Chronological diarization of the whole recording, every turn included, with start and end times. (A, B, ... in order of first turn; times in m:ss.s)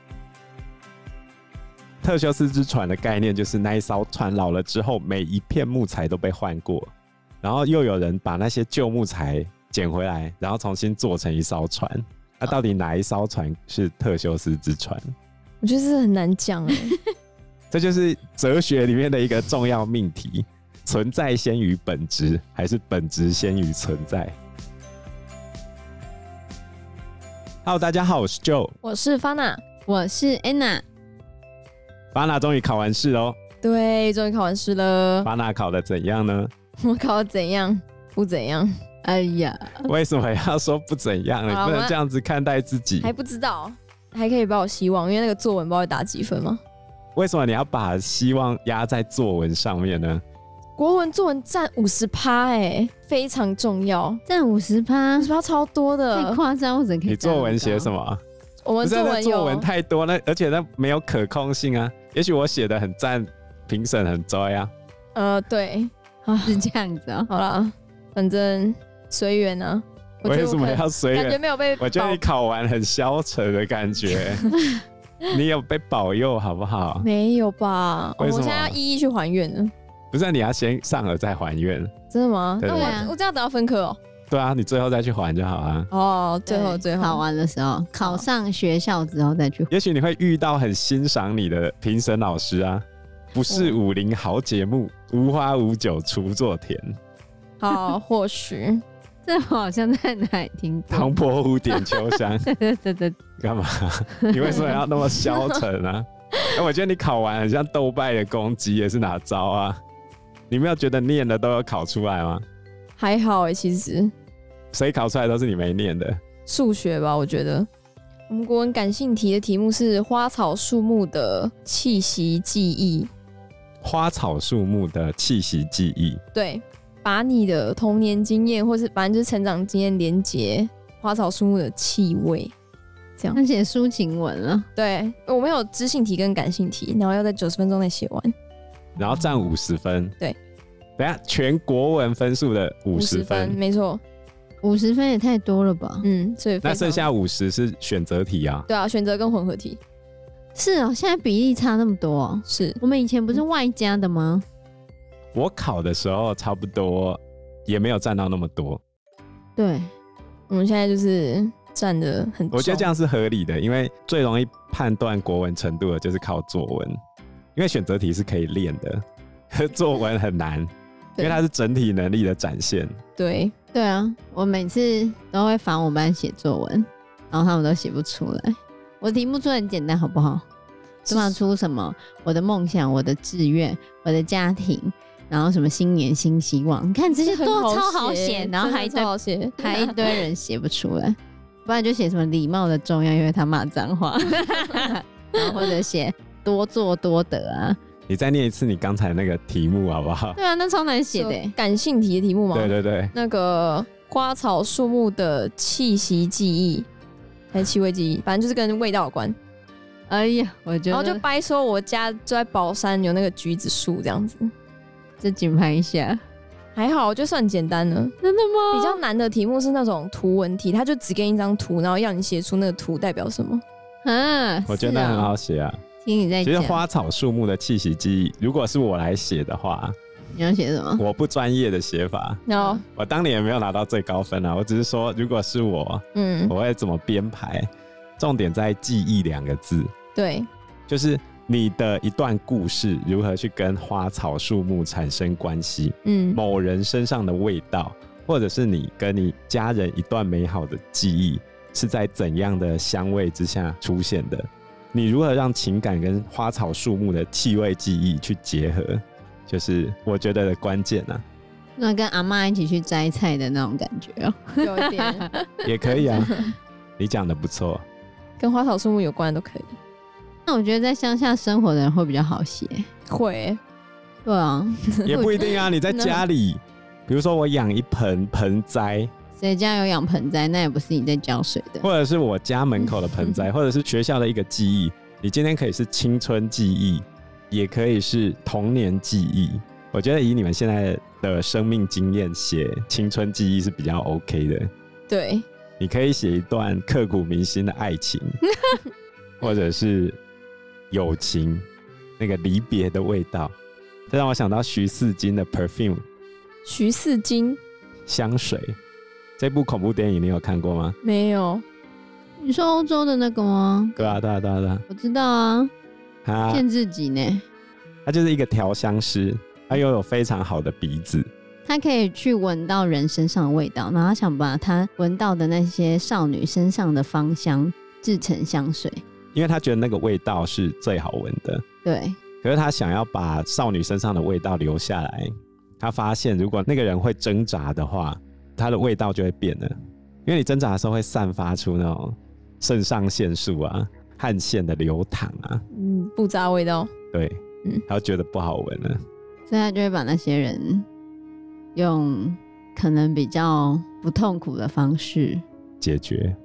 0:02.0-0:06.9 A
0:07.4-0:15.1 A
0:15.6-0:17.0 B
0:17.7-0:24.4 A
0:27.6-0:28.8 A
0:28.8-0:29.6 B
0:29.9-0:30.8 C
0:32.1-0:33.4 A
0:33.6-0:35.3 B
0:35.2-0:36.5 A
0:36.8-0:38.7 B
0:39.0-0:39.9 C
0:39.8-0:43.1 A
0:41.5-0:42.0 B
0:43.0-0:46.6 B
0:47.2-0:50.2 A
0:50.8-0:54.2 B
0:54.3-0:55.3 C
0:55.2-0:56.4 B
0:56.1-0:57.9 C
0:57.1-0:58.2 A
0:58.6-0:59.7 B
0:58.8-1:04.7 A
1:05.2-1:06.6 B
1:06.4-1:07.3 C
1:07.3-1:12.2 B
1:10.2-1:14.5 A
1:14.6-1:14.8 C
1:15.3-1:17.1 A
1:17.0-1:19.7 B
1:18.2-1:18.8 A
1:20.1-1:21.9 A
1:22.1-1:24.0 B
1:22.6-1:23.0 A
1:22.7-1:23.1 C
1:24.3-1:25.9 A
1:25.9-1:27.2 B
1:26.5-1:29.7 C
1:29.7-1:37.0 A
1:37.6-1:38.8 B
1:39.2-1:41.1 C
1:40.9-1:42.5 A
1:42.5-1:43.2 C
1:43.4-1:49.8 A
1:44.2-1:44.8 C
1:50.5-1:52.4 A
1:53.0-1:54.1 B
1:54.7-1:56.2 A
1:56.5-1:57.7 B
1:58.3-2:03.1 B
2:03.8-2:06.2 A
2:06.3-2:12.5 B
2:13.3-2:14.7 C
2:14.8-2:18.3 B
2:19.0-2:20.2 A
2:21.0-2:23.6 A
2:22.9-2:24.0 B
2:24.6-2:26.1 C
2:26.0-2:27.1 B
2:26.6-2:28.7 A
2:28.7-2:29.8 B
2:30.6-2:34.4 C
2:32.5-2:32.8 B
2:35.4-2:38.8 A
2:39.6-2:39.9 C
2:40.5-2:42.9 B
2:42.5-2:47.0 A
2:47.6-2:53.0 A
2:53.2-2:53.5 B
2:53.7-3:00.4 C
3:01.1-3:01.4 B
3:01.1-3:17.8 C
3:07.2-3:10.2 B
3:15.4-3:15.7 B
3:18.1-3:20.4 A
3:20.4-3:21.6 C
3:21.1-3:26.9 B
3:22.5-3:23.1 A
3:27.5-3:29.4 B
3:30.1-3:31.2 C
3:30.9-3:34.5 B
3:35.2-3:36.2 C
3:36.8-3:38.1 B
3:38.2-3:39.0 C
3:38.7-3:43.6 B
3:44.0-3:45.4 C
3:44.7-3:45.8 A
3:46.0-3:46.8 C
3:46.4-3:50.0 A
3:50.4-3:51.0 C
3:51.0-3:57.7 A
3:52.5-3:52.8 B
3:56.2-3:56.5 B
3:58.2-3:59.9 A
4:00.2-4:00.5 B
4:00.9-4:21.2 A
4:06.0-4:06.4 B
4:21.8-4:26.4 C
4:24.6-4:25.3 B
4:25.6-4:26.3 A
4:26.2-4:26.5 B
4:27.0-4:27.8 A
4:28.4-4:29.8 B
4:30.5-4:32.9 C
4:33.1-4:33.6 B
4:34.2-4:35.3 C
4:34.9-4:36.2 B
4:35.1-4:39.1 A
4:39.4-4:41.9 C
4:41.8-4:54.7 A
4:43.0-4:43.4 B
4:55.1-4:55.4 B
4:55.8-4:58.4 A
4:59.4-5:00.2 A
5:00.9-5:01.6 A
5:02.2-5:03.5 A
5:04.1-5:06.0 A
5:06.6-5:07.6 B
5:08.1-5:08.8 A
5:09.4-5:11.0 A
5:11.0-5:11.6 B
5:12.4-5:14.2 C
5:14.0-5:14.8 A
5:14.9-5:15.7 C
5:16.2-5:16.6 A
5:16.5-5:17.4 C
5:18.1-5:21.3 A
5:21.7-5:29.0 C
5:29.3-5:31.6 A
5:31.8-5:32.2 C
5:32.4-5:39.8 A
5:40.3-5:45.6 A
5:45.7-5:46.9 B
5:47.1-5:49.0 A
5:49.5-5:50.9 C
5:51.8-5:55.4 C
5:55.8-5:56.4 A